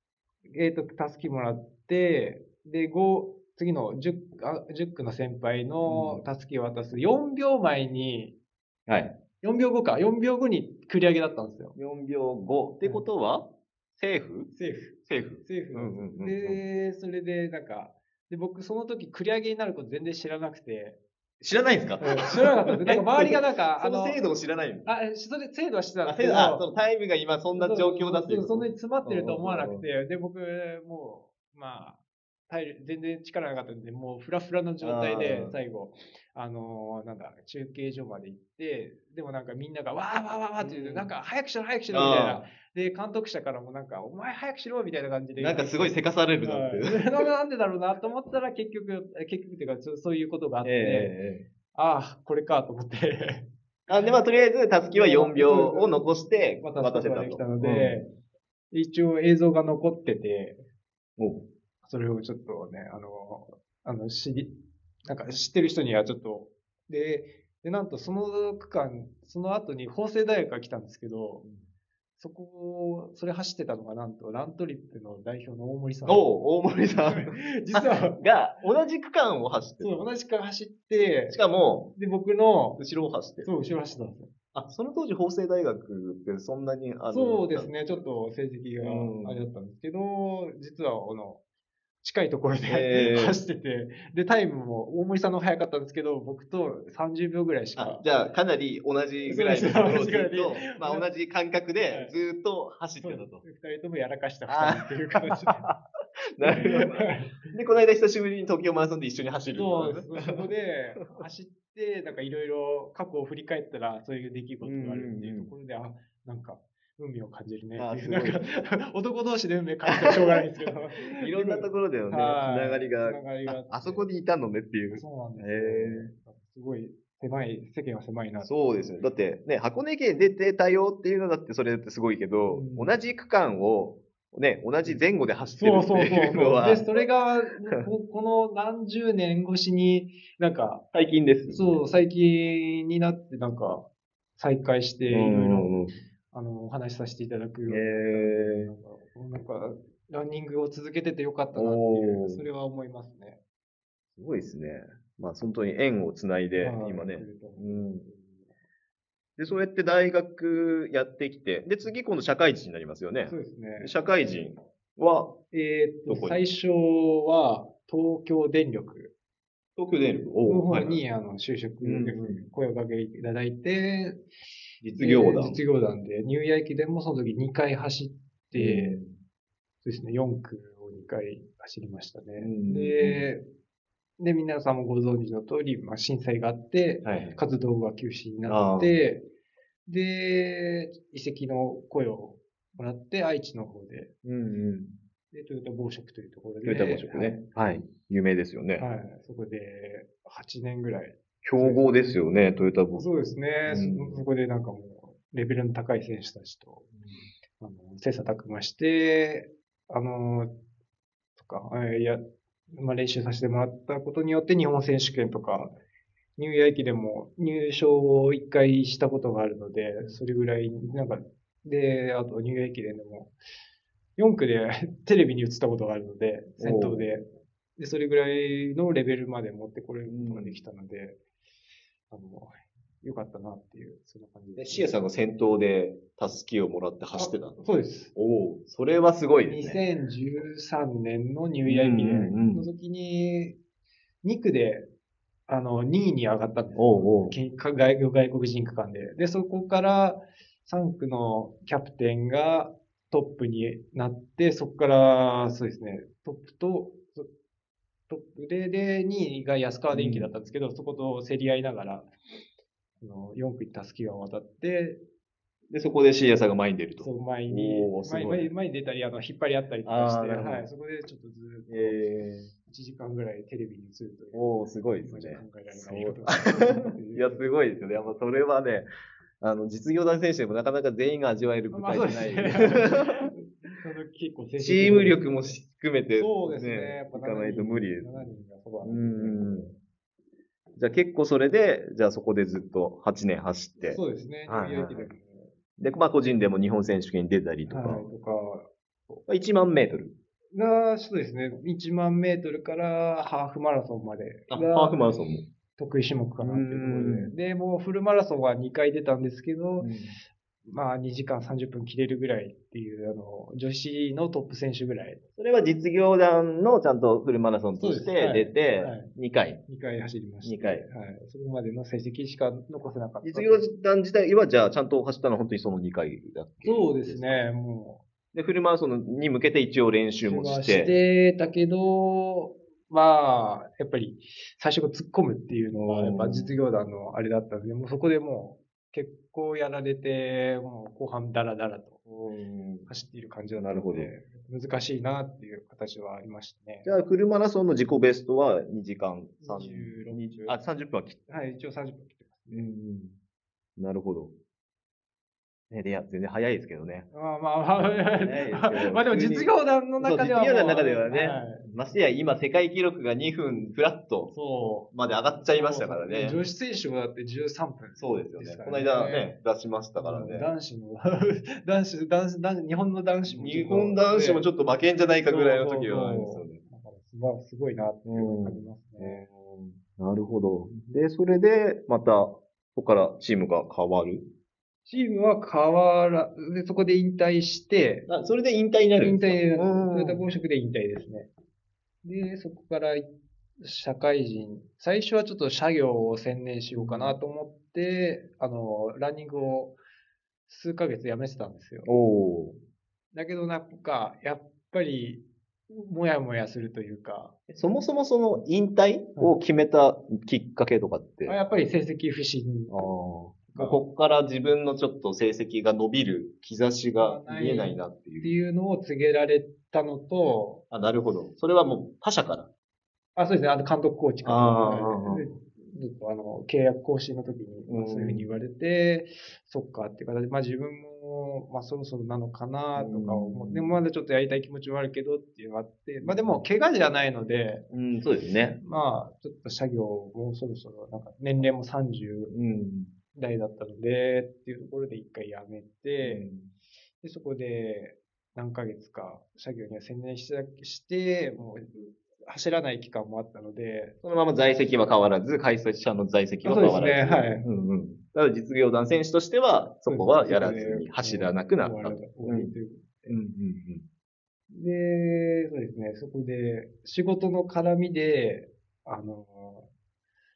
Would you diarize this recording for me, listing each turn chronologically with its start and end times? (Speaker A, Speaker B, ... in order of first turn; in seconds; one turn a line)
Speaker A: 0.5-8.3
Speaker B: 5.9-6.2
Speaker B: 8.9-9.2
Speaker A: 9.4-11.8
Speaker B: 11.8-14.5
Speaker A: 14.5-21.0
Speaker B: 15.1-16.6
Speaker B: 21.4-24.9
Speaker A: 22.0-24.2
Speaker A: 24.9-26.7
Speaker B: 26.1-29.9
Speaker A: 27.5-32.0
Speaker A: 32.5-51.1
Speaker B: 34.8-35.5
Speaker B: 40.6-41.1
Speaker B: 41.9-42.5
Speaker B: 45.4-47.3
Speaker B: 50.6-51.4
Speaker A: 51.7-53.5
Speaker B: 53.9-58.0
Speaker A: 54.9-56.1
Speaker A: 56.6-58.1
Speaker A: 58.7-60.6
Speaker B: 61.2-61.5
Speaker A: 61.8-64.5
Speaker A: 65.1-71.4
Speaker B: 71.4-71.7
Speaker A: 72.2-76.3
Speaker B: 76.0-80.1
Speaker A: 77.1-78.2
Speaker A: 79.8-81.4
Speaker B: 81.3-81.9
Speaker A: 81.9-82.8
Speaker B: 82.8-83.5
Speaker A: 83.4-84.3
Speaker B: 84.5-87.7
Speaker A: 87.1-91.4
Speaker B: 88.8-89.4
Speaker A: 92.0-98.0
Speaker B: 92.7-93.4
Speaker B: 97.8-103.4
Speaker A: 99.2-101.1
Speaker A: 101.9-102.2
Speaker A: 103.0-105.7
Speaker B: 104.5-105.8
Speaker B: 106.4-110.4
Speaker A: 106.4-107.5
Speaker A: 109.5-124.1
Speaker B: 114.6-115.5
Speaker B: 117.8-118.5
Speaker B: 119.9-126.1
Speaker A: 124.9-128.5
Speaker B: 128.4-137.0
Speaker A: 132.5-132.9
Speaker A: 135.6-140.8
Speaker B: 140.9-141.8
Speaker A: 141.5-143.9
Speaker A: 144.4-145.7
Speaker B: 145.1-145.9
Speaker A: 146.3-153.4
Speaker B: 147.7-148.7
Speaker B: 151.6-152.5
Speaker B: 154.2-158.1
Speaker A: 156.6-158.5
Speaker B: 159.4-165.4
Speaker A: 163.3-163.9
Speaker A: 165.5-169.1
Speaker B: 166.1-166.4
Speaker B: 169.8-171.0
Speaker A: 170.4-174.2
Speaker B: 171.8-172.5
Speaker B: 174.8-175.6
Speaker A: 174.9-179.0
Speaker B: 178.6-179.1
Speaker A: 179.8-183.4
Speaker B: 182.4-183.2
Speaker A: 184.2-189.2
Speaker B: 187.0-187.4
Speaker B: 188.4-189.0
Speaker A: 189.9-194.1
Speaker B: 194.2-194.9
Speaker A: 195.3-197.5
Speaker B: 196.6-198.9
Speaker A: 198.8-202.1
Speaker B: 201.4-203.1
Speaker A: 202.9-206.9
Speaker B: 203.7-204.2
Speaker B: 206.9-207.3
Speaker A: 207.6-210.5
Speaker A: 211.4-215.8
Speaker A: 216.4-223.3
Speaker A: 224.2-227.2
Speaker B: 226.6-227.1
Speaker A: 227.8-231.2
Speaker B: 230.1-230.6
Speaker A: 232.1-234.9
Speaker B: 234.6-237.6
Speaker A: 237.1-238.1
Speaker B: 238.1-239.8
Speaker A: 239.4-243.6
Speaker B: 241.7-242.7
Speaker A: 244.2-244.9
Speaker A: 245.5-257.3
Speaker B: 246.8-247.3
Speaker A: 258.1-262.1
Speaker B: 259.9-260.3
Speaker A: 263.0-265.0
Speaker B: 265.7-268.5
Speaker A: 267.0-272.1
Speaker B: 269.9-270.7
Speaker B: 271.7-272.5
Speaker A: 272.6-277.5
Speaker B: 274.3-278.9
Speaker B: 279.4-283.3
Speaker A: 281.7-285.6
Speaker B: 284.6-288.3
Speaker A: 286.1-289.8
Speaker B: 288.8-289.7
Speaker B: 290.8-295.1
Speaker A: 293.8-295.5
Speaker B: 295.8-298.0
Speaker A: 297.7-298.7
Speaker B: 299.2-300.1
Speaker A: 300.5-305.1
Speaker B: 304.5-305.5
Speaker A: 305.8-309.9
Speaker B: 306.4-307.3
Speaker B: 309.8-310.2
Speaker A: 310.6-315.2
Speaker B: 315.4-319.6
Speaker A: 317.8-319.1
Speaker A: 319.7-323.7
Speaker B: 320.4-320.9
Speaker B: 323.2-327.4
Speaker A: 326.6-328.0
Speaker B: 328.3-330.9
Speaker A: 330.2-342.0
Speaker B: 335.8-336.5
Speaker B: 342.1-342.9
Speaker A: 342.9-346.9
Speaker B: 343.6-344.1
Speaker B: 346.9-351.2
Speaker A: 349.4-350.6
Speaker A: 351.3-352.7
Speaker B: 352.5-353.2
Speaker B: 353.8-354.3
Speaker B: 355.7-357.1
Speaker A: 357.1-361.6
Speaker B: 357.8-364.3
Speaker A: 364.3-364.9
Speaker B: 364.9-366.4
Speaker A: 365.5-369.3
Speaker B: 368.0-370.5
Speaker A: 370.0-374.5
Speaker B: 373.3-376.6
Speaker A: 375.2-379.2
Speaker B: 378.1-384.3
Speaker A: 384.9-388.1
Speaker B: 388.1-390.3
Speaker A: 389.0-391.3
Speaker A: 392.0-399.8
Speaker B: 396.7-397.2
Speaker A: 400.5-401.9
Speaker B: 401.9-402.6
Speaker A: 403.1-407.4
Speaker B: 407.5-411.4
Speaker A: 411.2-412.9
Speaker B: 412.7-418.3
Speaker A: 413.5-413.8
Speaker A: 417.0-420.6
Speaker B: 420.7-422.5
Speaker A: 423.1-437.7
Speaker B: 424.2-425.3
Speaker B: 427.7-428.2
Speaker B: 432.8-433.8
Speaker B: 436.0-436.4
Speaker B: 437.7-438.6
Speaker A: 438.6-442.3
Speaker B: 442.3-442.9
Speaker A: 443.1-446.3
Speaker B: 446.0-446.5
Speaker A: 447.0-454.0
Speaker B: 454.0-462.5
Speaker A: 456.4-457.5
Speaker A: 459.9-463.1
Speaker B: 463.1-463.8
Speaker A: 464.5-469.7